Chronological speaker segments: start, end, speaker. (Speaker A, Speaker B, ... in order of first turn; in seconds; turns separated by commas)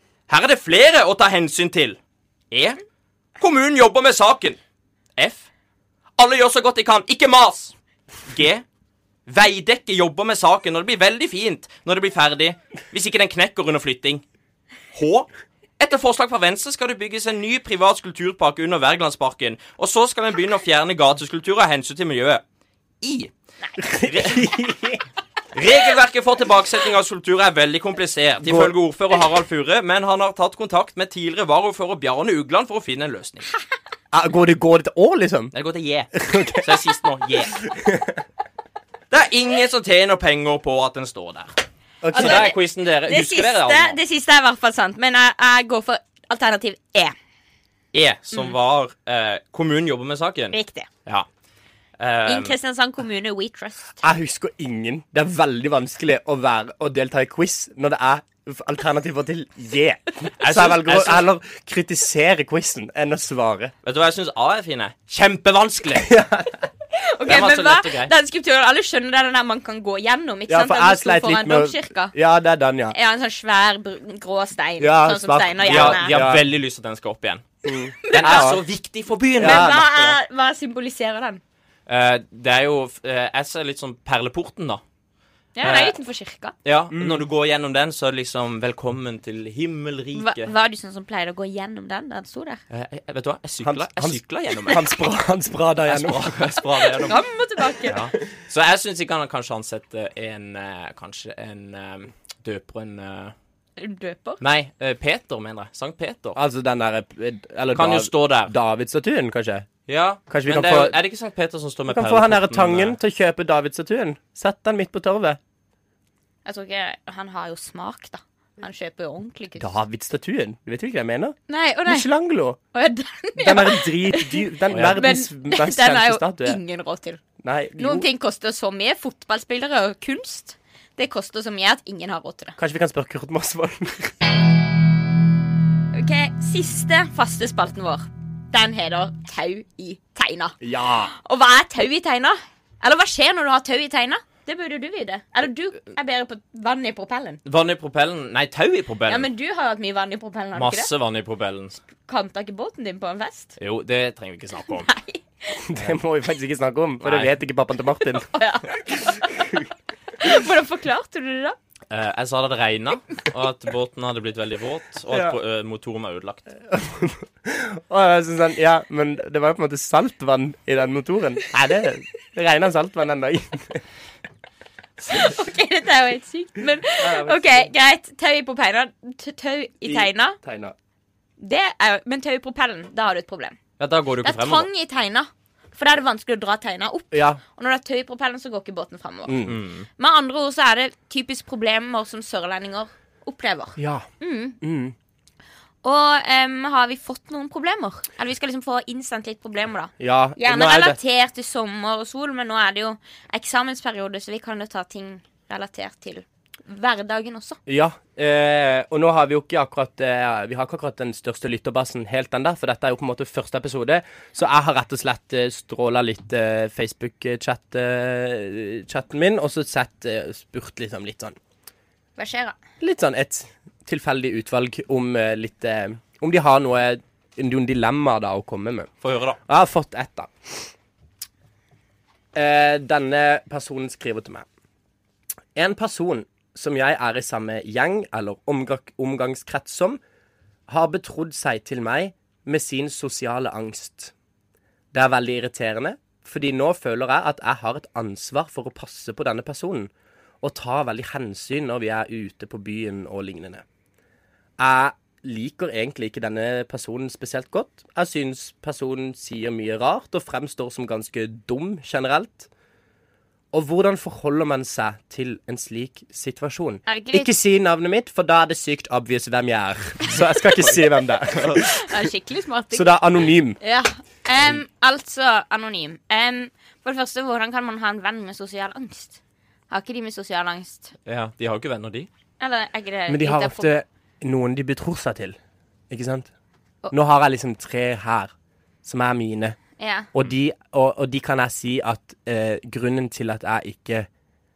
Speaker A: 0.3-2.0, Speaker A: 2.5-2.8, Speaker A: 3.4-4.6, Speaker A: 5.2-5.5, Speaker A: 6.2-7.8, Speaker A: 8.3-8.6, Speaker A: 9.3-14.2, Speaker A: 14.9-15.3, Speaker A: 15.8-22.4, Speaker A: 23.0-23.3, Speaker B: 23.8-25.0, Speaker A: 23.9-24.5, Speaker A: 25.6-33.5, Speaker B: 28.4-28.7, Speaker B: 34.1-35.5, Speaker A: 35.5-37.6, Speaker B: 36.1-36.8, Speaker B: 37.6-38.2, Speaker A: 39.1-41.5, Speaker B: 42.0-42.5, Speaker C: 42.1-47.1, Speaker A: 42.1-44.0, Speaker A: 47.9-51.3, Speaker C: 50.5-50.9, Speaker A: 52.0-52.5, Speaker C: 52.3-54.0, Speaker B: 54.0-63.7, Speaker A: 60.4-61.3, Speaker A: 63.8-66.1, Speaker B: 66.0-66.6, Speaker C: 66.9-72.1, Speaker A: 67.3-68.1, Speaker B: 70.5-73.0, Speaker C: 72.9-76.2, Speaker B: 74.8-76.4, Speaker A: 75.6-77.5, Speaker B: 77.7-78.6, Speaker C: 78.0-78.5, Speaker A: 78.1-79.8, Speaker B: 79.4-80.2, Speaker C: 79.4-81.4, Speaker A: 81.9-84.8, Speaker C: 85.6-86.5, Speaker A: 85.6-86.0, Speaker A: 86.7-90.5, Speaker B: 86.9-87.3, Speaker C: 90.2-92.6, Speaker A: 92.7-94.9, Speaker B: 93.6-96.4, Speaker A: 95.9-97.2, Speaker C: 97.0-98.0, Speaker A: 97.9-103.3, Speaker C: 103.8-104.4, Speaker A: 104.4-106.4, Speaker B: 106.4-109.7, Speaker A: 107.7-108.5, Speaker A: 109.9-113.0, Speaker B: 110.3-111.0, Speaker B: 111.9-115.4, Speaker C: 116.5-119.7, Speaker B: 119.6-122.6, Speaker C: 121.5-122.1, Speaker C: 122.7-127.2, Speaker B: 123.4-126.6, Speaker A: 124.7-125.0, Speaker B: 127.4-128.1, Speaker C: 127.8-132.6, Speaker B: 132.6-134.1, Speaker C: 135.9-140.6, Speaker B: 140.6-141.1, Speaker C: 141.1-147.4, Speaker A: 147.4-149.3, Speaker C: 149.1-150.9, Speaker A: 150.6-151.8, Speaker C: 152.0-153.6, Speaker A: 153.6-154.9, Speaker C: 154.8-155.6, Speaker B: 155.7-158.3, Speaker A: 157.0-157.3, Speaker C: 158.1-159.7, Speaker C: 160.2-161.6, Speaker A: 161.9-166.5, Speaker B: 165.1-165.4, Speaker B: 166.7-173.8, Speaker C: 175.0-180.4, Speaker B: 177.0-177.7, Speaker B: 179.8-180.8, Speaker C: 181.4-183.6, Speaker A: 183.8-184.7, Speaker C: 184.2-189.4, Speaker B: 187.1-187.4, Speaker B: 189.3-189.6, Speaker A: 189.5-189.9, Speaker C: 190.0-194.6, Speaker B: 193.8-194.1, Speaker B: 194.6-194.9, Speaker C: 195.8-207.6, Speaker B: 200.0-201.0, Speaker B: 207.7-221.4, Speaker C: 222.2-222.6, Speaker B: 222.8-228.9, Speaker A: 229.0-229.4, Speaker B: 229.5-230.7, Speaker B: 232.3-234.5, Speaker B: 235.6-240.0, Speaker B: 240.7-244.1, Speaker B: 244.9-249.9, Speaker B: 250.4-253.6, Speaker B: 254.6-262.5, Speaker B: 263.5-271.9, Speaker C: 266.9-267.3, Speaker A: 271.4-271.6, Speaker C: 271.6-273.0, Speaker B: 272.7-273.6, Speaker C: 273.6-279.2, Speaker C: 279.7-280.9, Speaker A: 281.1-282.1, Speaker C: 282.4-283.7, Speaker B: 283.1-285.4, Speaker B: 285.9-286.3, Speaker B: 286.9-288.3, Speaker B: 288.8-289.6, Speaker C: 289.8-290.1, Speaker B: 290.1-294.1